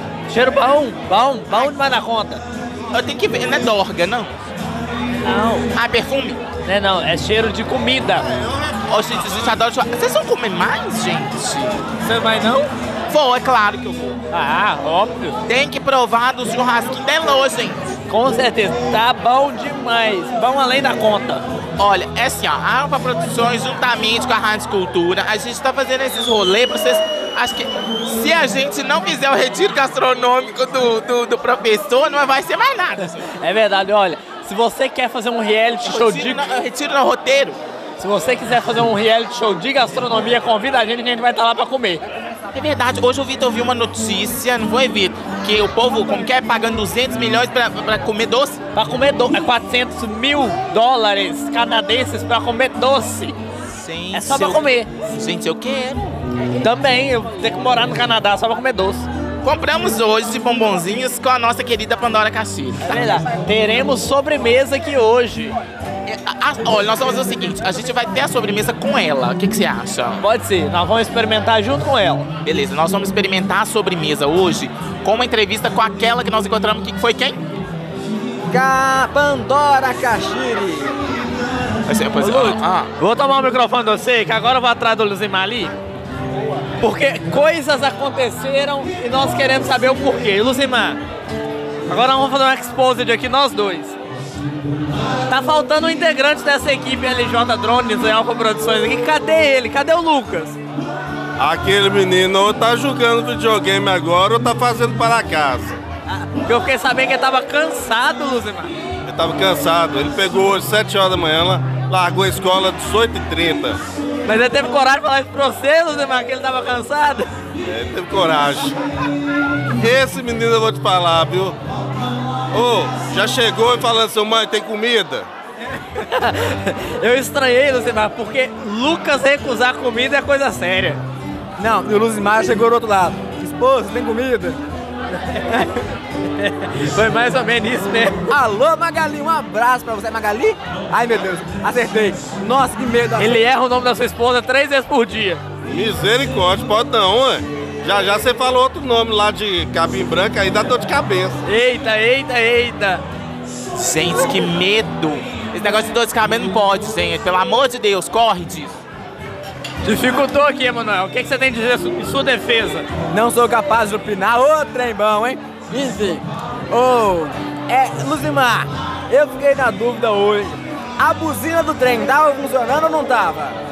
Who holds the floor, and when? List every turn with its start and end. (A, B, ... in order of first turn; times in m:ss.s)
0:00.3-0:02.4 A
0:02.9-0:04.3 B
0:05.2-0:05.7 A
0:05.7-0:06.4 B
0:06.6-0:08.3 A
0:08.3-0:08.8 C
0:08.9-0:11.8 B
0:12.0-0:12.7 A
0:13.1-0:14.2 B
0:14.3-0:15.4 A
0:15.5-0:18.0 B
0:18.1-0:21.4 A
0:21.8-0:33.4 B
0:33.4-0:36.4 A
0:35.8-0:37.6 B
0:38.0-0:42.0 A
0:42.5-0:48.6 B
0:48.8-0:53.4 A
0:53.7-0:56.2 B
0:54.1-0:54.9 A
0:56.6-0:59.1 A
0:59.4-1:03.2 B
1:02.8-1:05.6 A
1:06.1-1:10.2 B
1:10.2-1:12.3 A
1:12.4-1:17.4 B
1:18.5-1:21.0 D
1:21.9-1:22.9 B
1:22.2-1:25.7 A
1:26.8-1:31.0 A
1:31.9-1:34.0 A
1:35.3-1:40.6 A
1:41.4-1:45.8 C
1:46.1-1:48.7 A
1:49.0-1:53.8 C
1:54.3-1:57.3 A
1:57.6-1:58.8 C
1:59.8-2:01.6 C
2:02.5-2:05.3 C
2:05.9-2:11.0 A
2:11.6-2:14.6 D
2:15.3-2:15.7 A
2:16.4-2:18.3 A
2:18.3-2:23.4 D
2:23.2-2:25.4 A
2:25.6-2:31.4 C
2:31.5-2:33.0 A
2:33.8-2:38.8 B
2:39.8-2:42.9 A
2:43.1-2:53.6 D